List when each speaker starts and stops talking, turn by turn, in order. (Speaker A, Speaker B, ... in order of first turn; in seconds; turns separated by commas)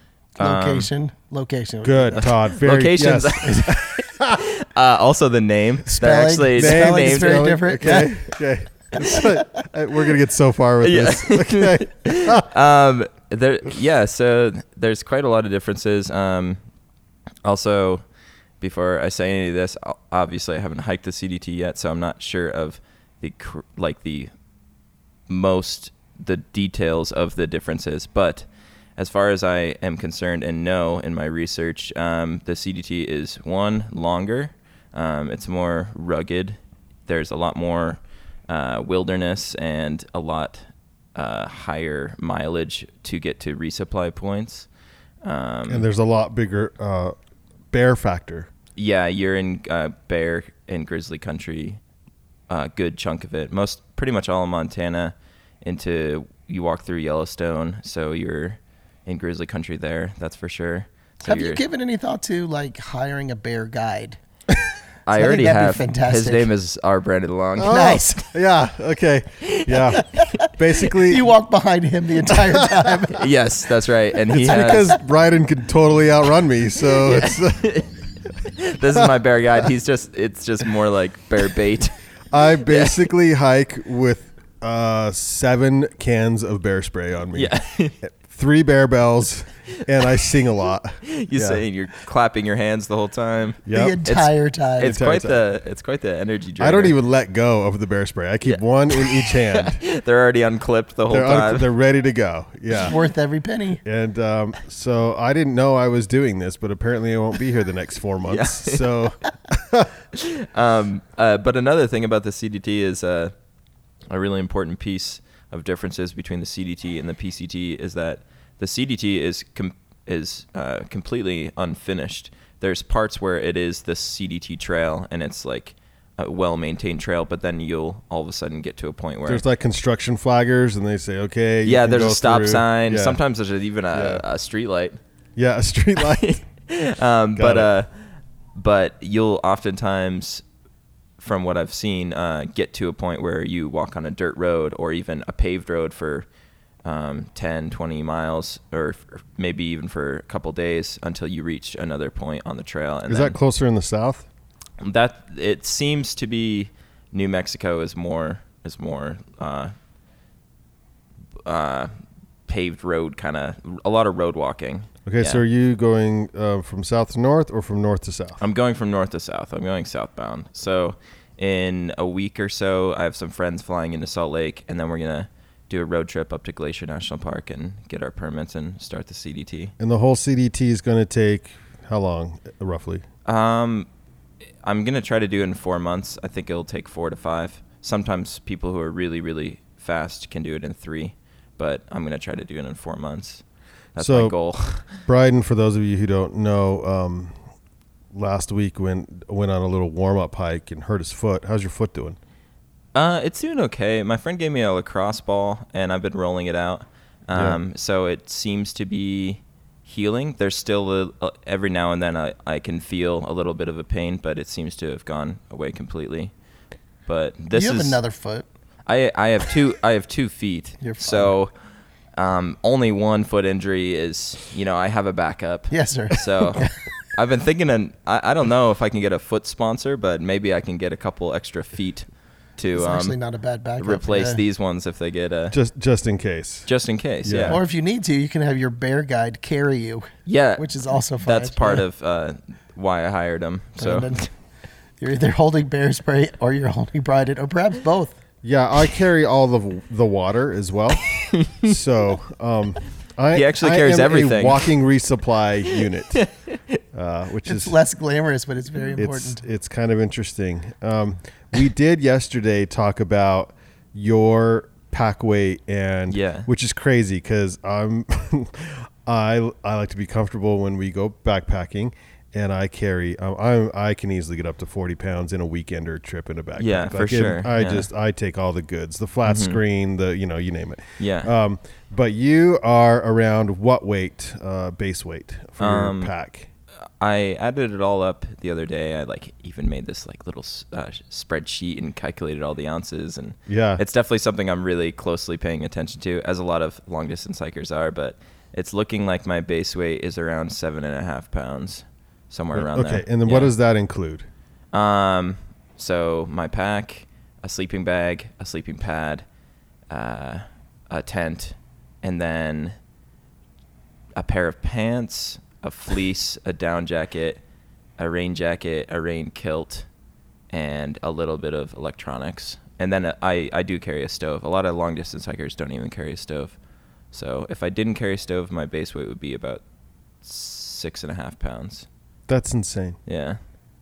Speaker A: 0.4-2.3, Speaker B: 0.4-0.9, Speaker C: 1.8-4.4, Speaker B: 2.2-7.4, Speaker A: 5.9-8.2, Speaker C: 6.5-12.5, Speaker A: 8.9-9.3, Speaker B: 10.8-16.6, Speaker B: 17.4-18.0, Speaker B: 18.6-24.3, Speaker B: 25.3-44.7, Speaker B: 45.2-45.9, Speaker C: 45.7-47.1, Speaker C: 47.7-48.5, Speaker B: 48.8-51.8, Speaker B: 52.5-61.6, Speaker A: 61.2-64.2, Speaker B: 65.0-68.1, Speaker A: 65.1-66.5, Speaker C: 67.6-71.3, Speaker A: 67.6-68.2, Speaker B: 69.4-70.2, Speaker A: 71.1-73.3, Speaker C: 72.3-72.9, Speaker B: 73.2-74.9, Speaker C: 74.3-77.7, Speaker A: 74.5-75.0, Speaker B: 77.0-77.9, Speaker B: 78.4-81.9, Speaker C: 82.3-91.6, Speaker B: 82.7-83.1, Speaker B: 87.3-88.0, Speaker B: 91.0-96.9, Speaker C: 93.7-94.0, Speaker A: 93.7-95.0, Speaker C: 94.8-95.4, Speaker C: 96.6-99.8, Speaker B: 98.4-101.7, Speaker C: 101.1-102.9, Speaker A: 102.8-103.8, Speaker C: 103.8-109.9, Speaker B: 108.3-108.9, Speaker B: 110.1-113.3, Speaker B: 114.1-129.4, Speaker C: 129.2-133.2, Speaker B: 131.6-135.0, Speaker C: 133.9-134.2, Speaker C: 135.3-136.4, Speaker B: 136.0-137.9, Speaker C: 137.3-137.7, Speaker B: 138.5-140.4, Speaker B: 141.2-146.3, Speaker B: 146.8-153.4, Speaker C: 153.1-154.2, Speaker B: 154.8-159.7, Speaker B: 161.4-161.9, Speaker B: 162.5-165.4, Speaker C: 165.1-168.4, Speaker B: 168.4-179.7, Speaker C: 179.8-183.0, Speaker B: 183.2-183.9, Speaker B: 184.6-193.4, Speaker B: 193.9-194.9, Speaker C: 194.0-194.3, Speaker C: 194.9-197.3, Speaker C: 198.1-202.2, Speaker B: 202.9-216.3, Speaker C: 207.3-207.6, Speaker B: 217.1-218.0, Speaker A: 217.5-218.4, Speaker B: 218.8-221.5, Speaker A: 220.8-221.3, Speaker B: 222.2-233.2, Speaker A: 225.7-226.7, Speaker A: 232.8-234.4, Speaker B: 233.8-235.6, Speaker C: 235.5-236.7, Speaker B: 236.7-237.6, Speaker C: 237.2-237.6, Speaker A: 237.5-241.8, Speaker B: 240.2-244.2, Speaker A: 243.8-244.3, Speaker A: 245.0-248.2, Speaker C: 248.4-251.0, Speaker B: 251.1-251.8, Speaker C: 251.6-256.2, Speaker B: 253.3-254.7, Speaker B: 256.1-256.8, Speaker C: 256.9-257.7, Speaker A: 257.4-259.4, Speaker C: 258.9-286.5, Speaker B: 266.1-266.5, Speaker B: 276.6-277.9, Speaker B: 279.2-279.6, Speaker B: 281.0-281.3, Speaker B: 285.6-286.1, Speaker B: 287.0-303.5, Speaker C: 293.5-293.8, Speaker C: 302.5-304.3, Speaker B: 304.7-309.2, Speaker B: 309.9-312.8, Speaker B: 314.1-317.4, Speaker B: 318.0-319.9, Speaker B: 320.5-326.6, Speaker B: 327.1-329.6, Speaker B: 330.2-331.9, Speaker C: 332.3-333.0, Speaker B: 333.1-333.4